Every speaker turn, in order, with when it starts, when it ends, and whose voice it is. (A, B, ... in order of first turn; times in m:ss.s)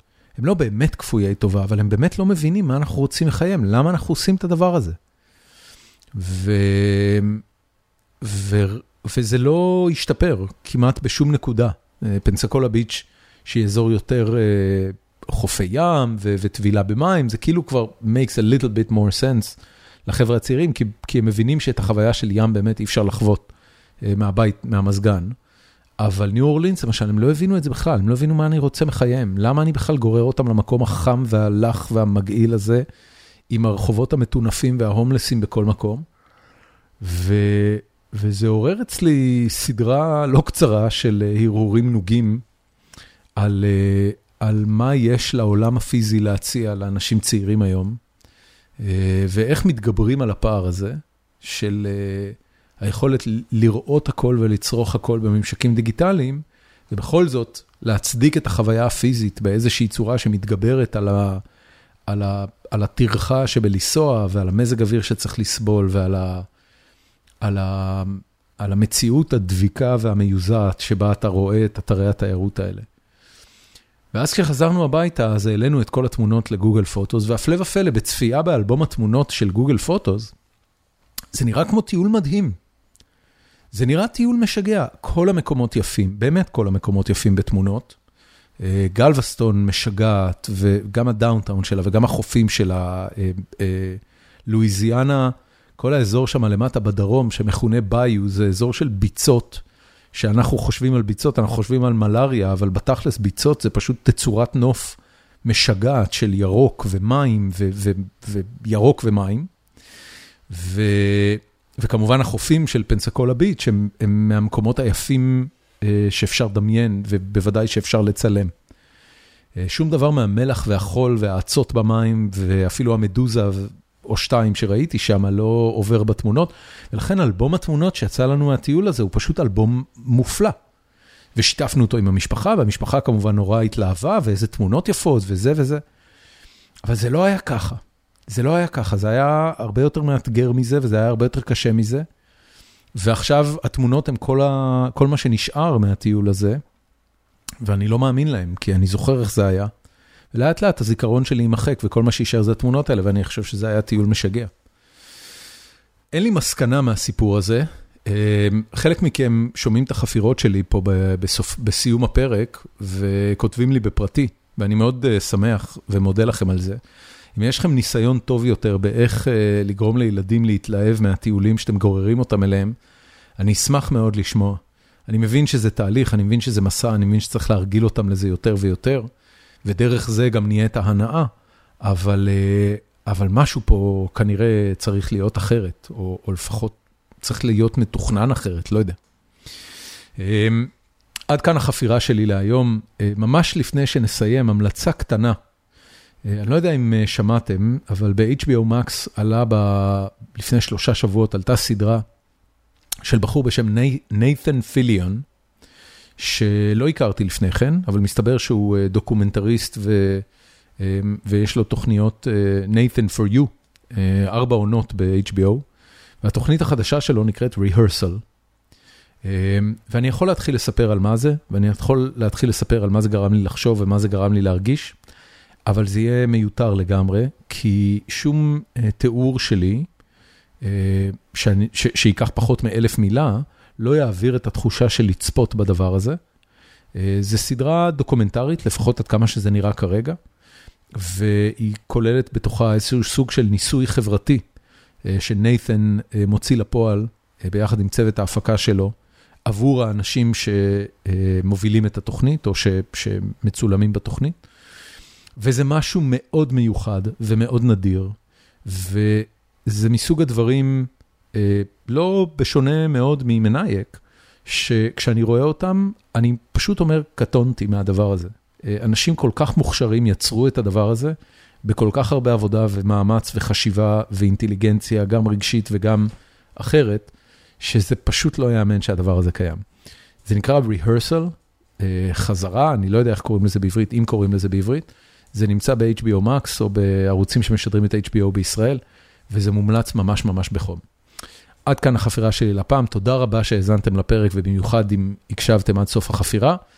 0:00.4-0:05.0 A
0:06.2-0:07.4 A
0:08.2-0:23.5 A
0:24.0-0:25.4 A
0:26.0-0:32.8 A
0:33.5-0:36.0 A
0:37.0-0:42.4 A
0:43.4-0:48.0 A
0:48.8-1:01.4 A
1:02.1-1:06.5 A
1:07.4-1:12.9 A
1:14.1-1:20.3 A
1:21.3-1:22.6 A
1:23.7-1:28.0 A
1:28.6-1:49.5 A
1:50.5-1:58.5 A
1:59.6-2:10.6 A
2:11.4-2:15.8 A
2:16.8-2:22.1 A
2:23.0-2:26.6 A
2:27.6-2:29.7 A
2:30.3-2:34.5 A
2:36.1-2:46.8 A
2:47.4-2:52.8 A
2:53.4-2:59.1 A
2:59.6-3:01.3 A
3:01.8-3:09.0 A
3:10.2-3:10.7 A
3:11.3-3:15.4 A
3:16.2-3:22.0 A
3:23.0-3:25.2 A
3:26.2-3:30.3 A
3:30.8-3:35.6 A
3:36.2-3:38.2 A
3:39.2-3:45.0 A
3:45.7-3:49.9 A
3:50.6-3:56.2 A
3:57.0-4:00.2 A
4:01.0-4:04.4 A
4:05.1-4:08.9 A
4:09.5-4:14.4 A
4:15.4-4:39.6 A
4:40.2-4:50.8 A
4:51.7-4:56.6 A